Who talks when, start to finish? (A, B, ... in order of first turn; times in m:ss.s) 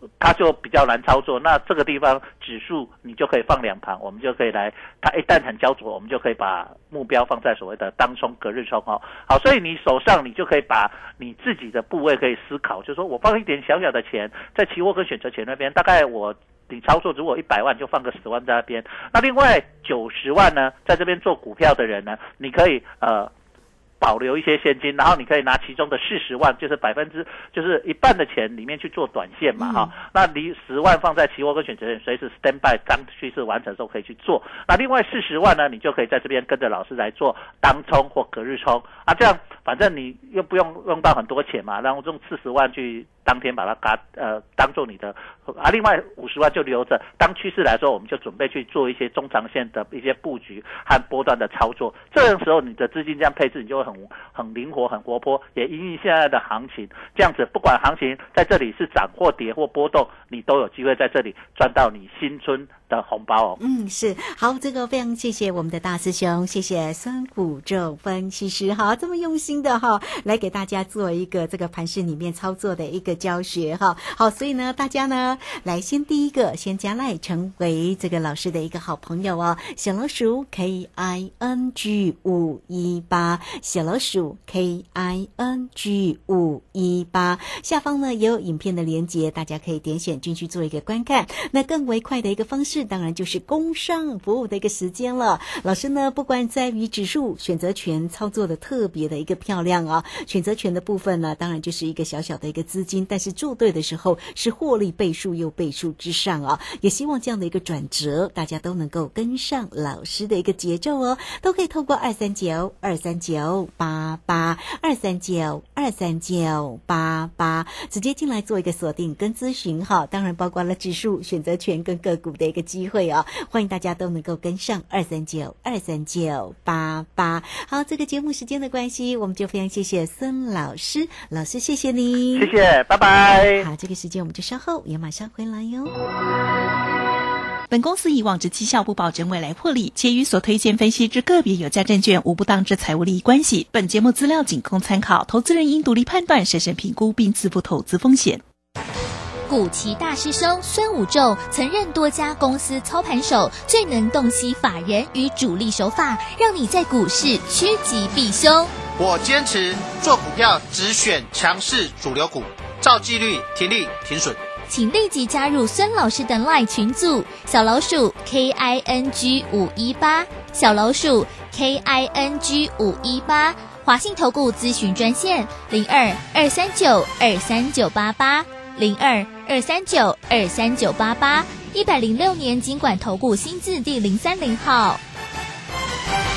0:00.2-0:23.3 A
0:24.0-1:03.6 A
0:29.6-0:29.9 B
1:03.6-2:12.5 B
2:12.3-2:13.7 A
2:13.5-2:15.9 B
2:17.7-2:28.4 C
2:29.5-2:38.7 D
2:39.0-2:44.4 E
2:44.7-3:05.0 D